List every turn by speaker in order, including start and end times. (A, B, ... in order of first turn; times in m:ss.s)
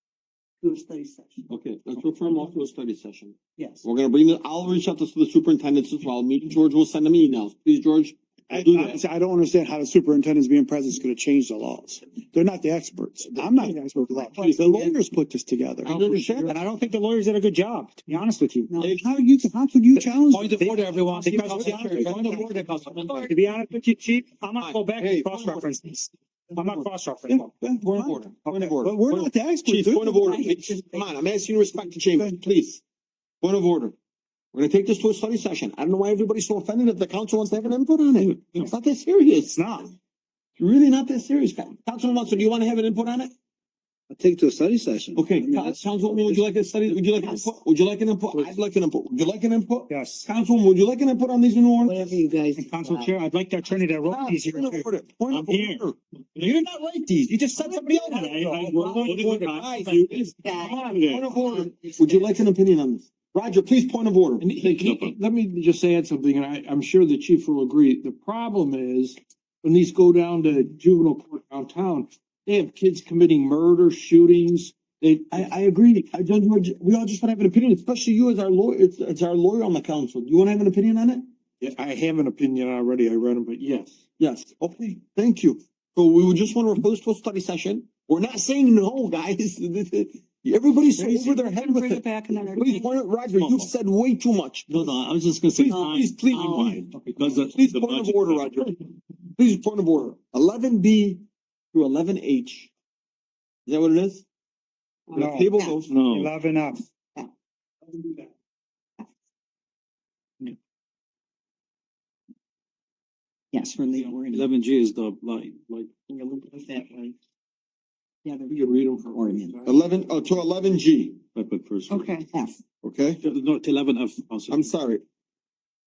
0:00.6-0:01.5 A
0:01.5-0:09.0 B
0:03.6-0:03.8 A
0:08.5-0:16.0 C
0:08.7-0:08.9 D
0:13.3-0:13.6 B
0:13.7-0:14.4 E
0:14.1-0:14.9 A
0:15.8-0:16.6 B
0:16.4-0:18.8 E
0:18.7-0:19.1 A
0:18.8-0:19.1 B
0:19.0-0:20.5 C
0:20.0-0:22.5 E
0:20.3-0:23.2 F
0:21.5-0:23.3 B
0:23.2-0:27.6 E
0:24.6-0:25.6 B
0:26.6-0:26.9 B
0:27.3-0:28.2 C
0:27.6-0:32.8 B
0:28.4-0:28.8 E
0:28.8-0:30.2 C
0:30.2-0:31.1 A
0:33.4-0:33.9 B
0:34.5-0:39.6 B
0:38.2-0:38.6 D
0:39.4-0:39.9 C
0:40.6-0:43.3 B
0:44.1-0:47.0 F
0:45.1-0:52.2 B
0:49.9-0:50.3 E
0:51.8-0:53.1 A
0:52.5-0:54.9 E
0:54.0-0:57.0 B
0:55.3-0:55.8 D
0:56.4-0:57.6 C
0:57.6-0:58.0 A
0:57.6-0:59.8 E
0:58.0-1:01.3 D
0:58.7-0:59.1 A
0:58.9-1:04.5 B
0:59.9-1:02.4 A
1:04.4-1:15.5 G
1:04.7-1:05.2 D
1:15.3-1:21.2 B
1:21.6-1:24.0 G
1:24.2-1:34.9 B
1:31.0-1:32.9 A
1:33.3-1:33.7 D
1:34.7-1:38.7 D
1:35.5-1:36.9 B
1:35.7-1:36.6 A
1:37.4-1:38.8 B
1:39.3-1:42.7 B
1:43.6-1:44.2 B
1:45.1-1:45.9 B
1:45.1-1:46.8 E
1:45.5-1:45.8 A
1:45.9-1:46.3 D
1:53.5-1:54.5 A
1:54.3-1:56.0 F
1:56.1-1:57.1 A
1:58.2-1:59.6 A
1:58.5-1:59.8 G
1:59.6-2:01.2 B
2:01.3-2:02.1 D
2:01.9-2:02.6 A
2:02.8-2:03.2 B
2:03.2-2:04.7 F
2:04.5-2:05.0 B